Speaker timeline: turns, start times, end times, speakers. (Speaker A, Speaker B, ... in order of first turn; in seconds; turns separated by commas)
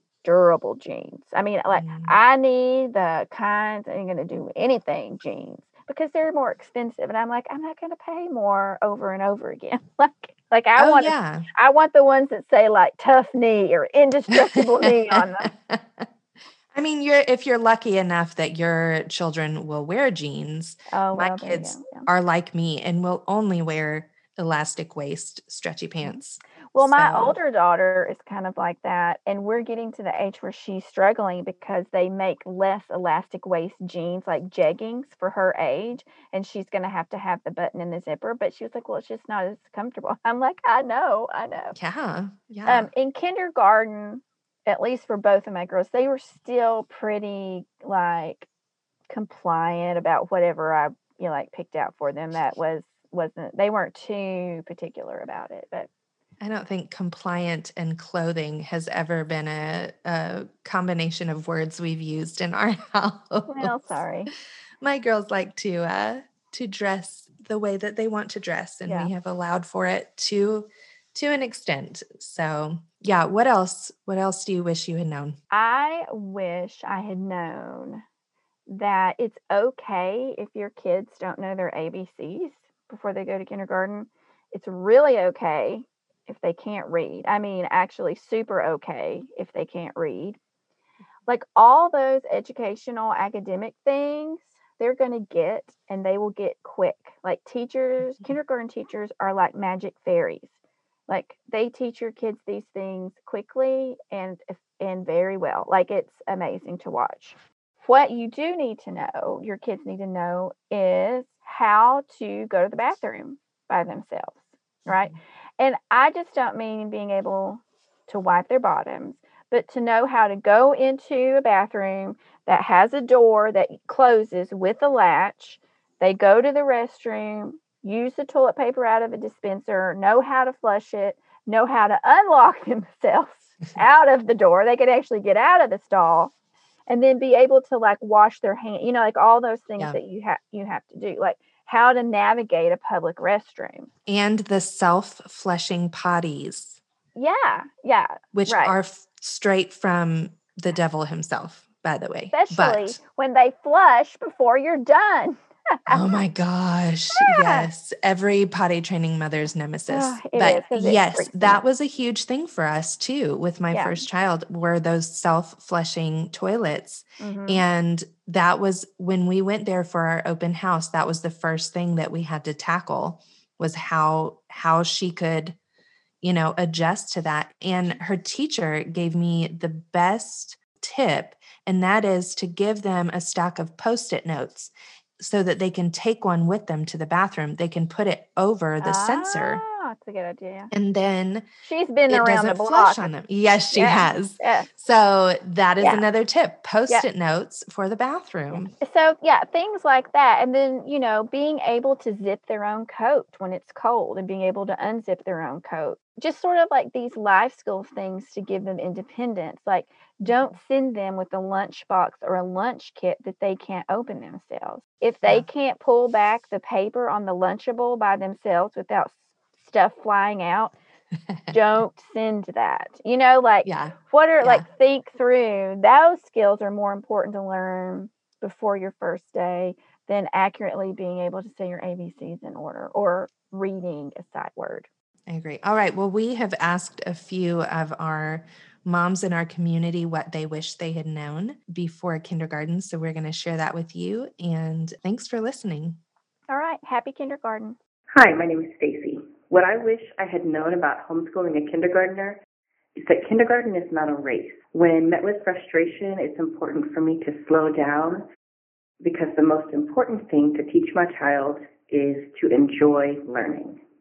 Speaker A: 0.2-15.5, Speaker B: 1.7-2.2, Speaker B: 10.8-11.4, Speaker B: 14.5-16.1, Speaker B: 16.7-27.4, Speaker A: 20.9-22.1, Speaker A: 26.7-41.8, Speaker B: 41.7-42.9, Speaker A: 42.6-48.5, Speaker A: 49.1-55.9, Speaker B: 56.4-63.7, Speaker A: 63.5-64.3, Speaker B: 64.8-75.4, Speaker A: 68.8-69.1, Speaker A: 75.5-78.0, Speaker A: 78.7-90.4, Speaker A: 91.3-100.5, Speaker A: 101.1-136.3, Speaker B: 114.8-115.2, Speaker A: 136.9-143.9, Speaker B: 144.1-146.8, Speaker A: 147.1-148.8, Speaker B: 148.3-153.0, Speaker A: 152.3-156.1, Speaker B: 155.9-175.6, Speaker A: 157.1-157.7, Speaker A: 159.9-161.6, Speaker A: 163.7-164.0, Speaker A: 167.2-167.6, Speaker B: 176.2-189.6, Speaker A: 188.8-190.7, Speaker B: 190.7-191.5, Speaker A: 191.6-193.1, Speaker B: 192.1-198.7, Speaker A: 193.7-194.7, Speaker A: 195.8-196.1, Speaker A: 198.5-220.7, Speaker B: 210.2-210.5, Speaker B: 221.3-221.6, Speaker A: 221.5-234.9, Speaker B: 223.6-224.7, Speaker B: 235.3-246.0, Speaker A: 246.5-247.8, Speaker C: 248.1-252.4, Speaker C: 252.9-258.2, Speaker C: 259.0-263.8